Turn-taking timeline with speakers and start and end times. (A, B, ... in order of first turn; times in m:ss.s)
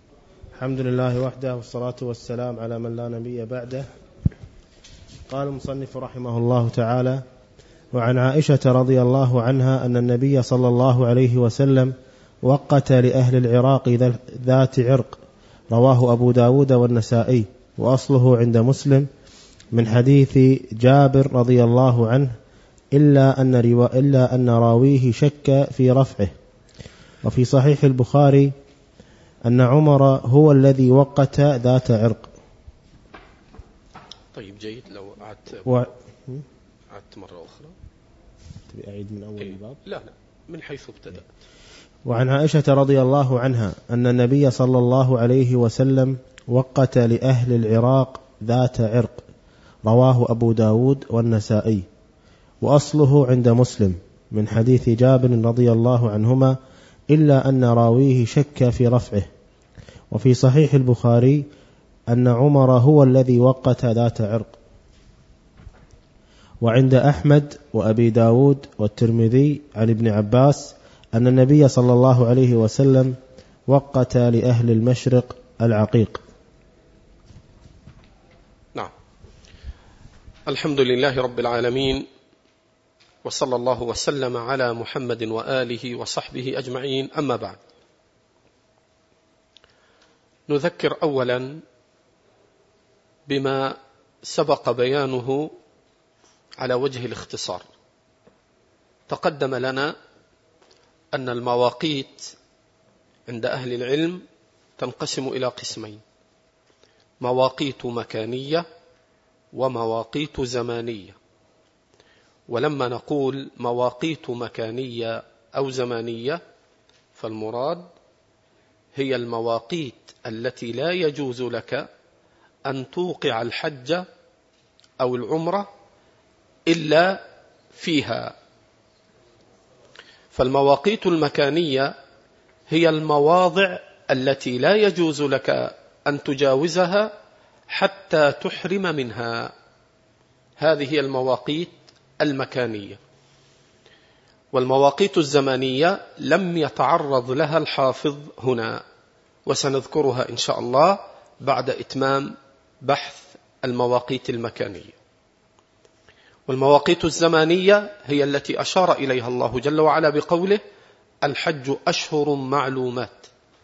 0:00.6-0:03.9 A
0:05.3-0:07.2 A
0:07.9-0:15.2 A
0:15.7-0:19.1 A
0:19.7-0:22.4 A
0:22.9-0:26.3 A
0:27.2-0:28.5 A
0:29.5-0:32.3 A
0:34.3-0:35.8 B
0:35.7-0:36.4 A
0:36.9-0:37.8 B
0:38.7-0:39.8 A
0:39.4-0:41.3 B
0:42.1-0:49.2 A
0:49.9-0:51.9 A
0:52.6-0:56.6 A
0:57.1-0:59.3 A
1:00.1-1:01.5 A
1:02.1-1:04.5 A
1:06.6-1:13.2 A
1:13.7-1:16.2 A
1:20.5-1:22.0 B
1:23.2-1:27.6 B
1:30.5-1:31.6 B
1:33.3-1:35.5 B
1:36.6-1:37.7 B
1:39.1-1:39.9 B
1:41.1-1:42.3 B
1:43.3-1:44.2 B
1:44.8-1:46.0 B
1:47.2-1:48.6 B
1:49.5-1:51.2 B
1:52.5-1:56.4 B
1:57.2-1:57.9 B
1:59.0-2:01.9 B
2:02.7-2:04.1 B
2:05.0-2:05.7 B
2:06.7-2:07.2 B
2:07.7-2:08.4 B
2:10.3-2:11.9 B
2:12.7-2:17.1 B
2:17.7-2:19.5 B
2:20.6-2:23.0 B
2:24.5-2:28.8 B
2:29.5-2:35.0 B
2:36.5-2:40.6 B
2:41.2-2:43.3 B